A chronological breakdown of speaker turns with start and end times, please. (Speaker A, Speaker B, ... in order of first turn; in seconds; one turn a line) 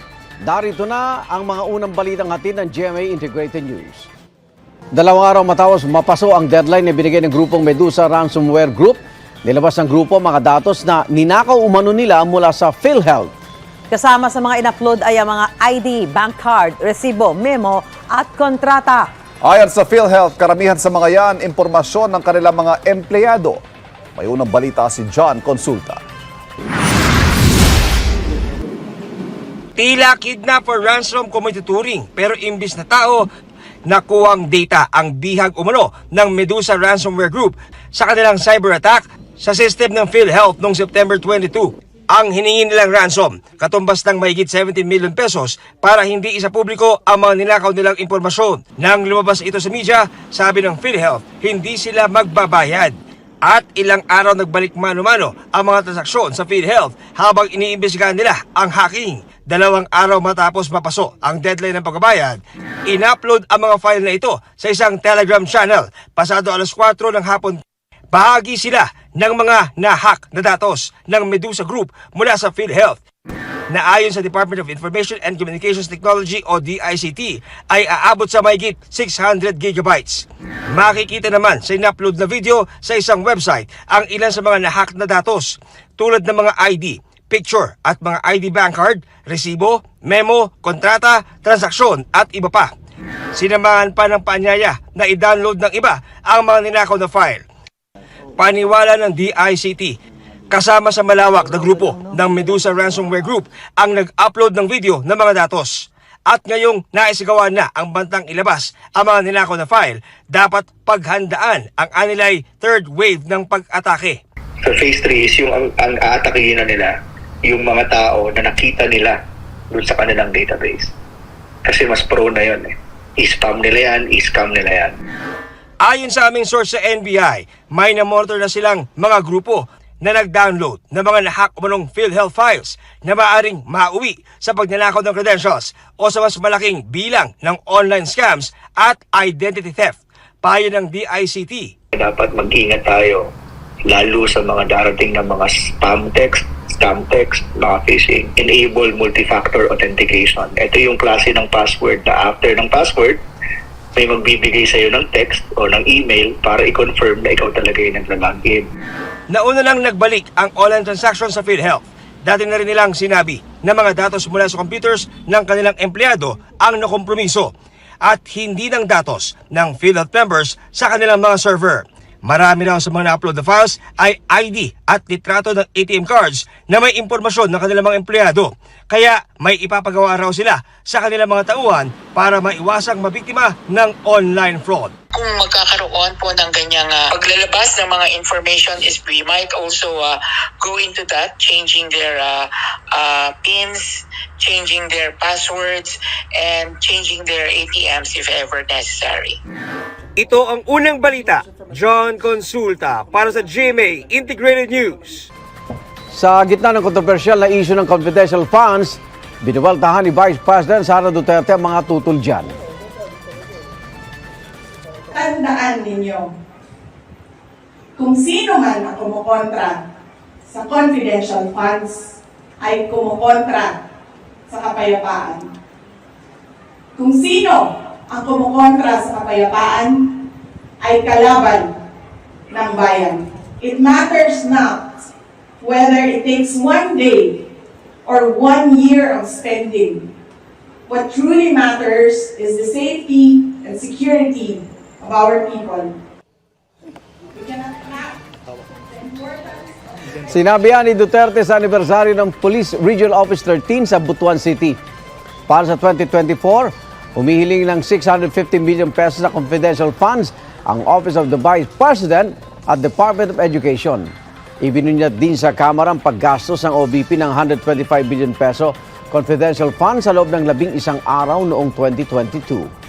Speaker A: 0.4-4.1
Speaker A: 4.9-13.3
Speaker B: 13.9-19.1
Speaker C: 19.4-23.6
Speaker C: 24.2-26.0
Speaker D: 29.8-33.3
Speaker D: 33.9-67.6
Speaker D: 68.1-73.0
Speaker D: 73.7-92.7
Speaker D: 93.4-97.4
Speaker D: 98.4-99.9
Speaker D: 100.5-114.2
Speaker E: 114.7-116.9
Speaker E: 117.5-119.2
Speaker E: 119.7-120.9
Speaker E: 121.7-124.9
Speaker D: 125.8-141.7
Speaker E: 141.9-143.2
Speaker E: 143.9-153.2
Speaker E: 154.0-158.7
Speaker D: 159.3-167.5
Speaker D: 168.1-184.9
Speaker F: 185.1-199.4
Speaker D: 200.2-205.3
Speaker A: 206.1-212.6
Speaker G: 215.1-216.3
Speaker G: 218.0-219.8
Speaker G: 220.5-223.8
Speaker G: 224.5-225.5
Speaker G: 227.0-230.0
Speaker G: 230.8-231.7
Speaker G: 232.5-235.0
Speaker G: 235.6-237.4
Speaker G: 238.1-240.1
Speaker G: 240.9-245.9
Speaker G: 247.3-248.1
Speaker G: 249.0-249.6
Speaker A: 250.3-254.8
Speaker A: 255.5-272.7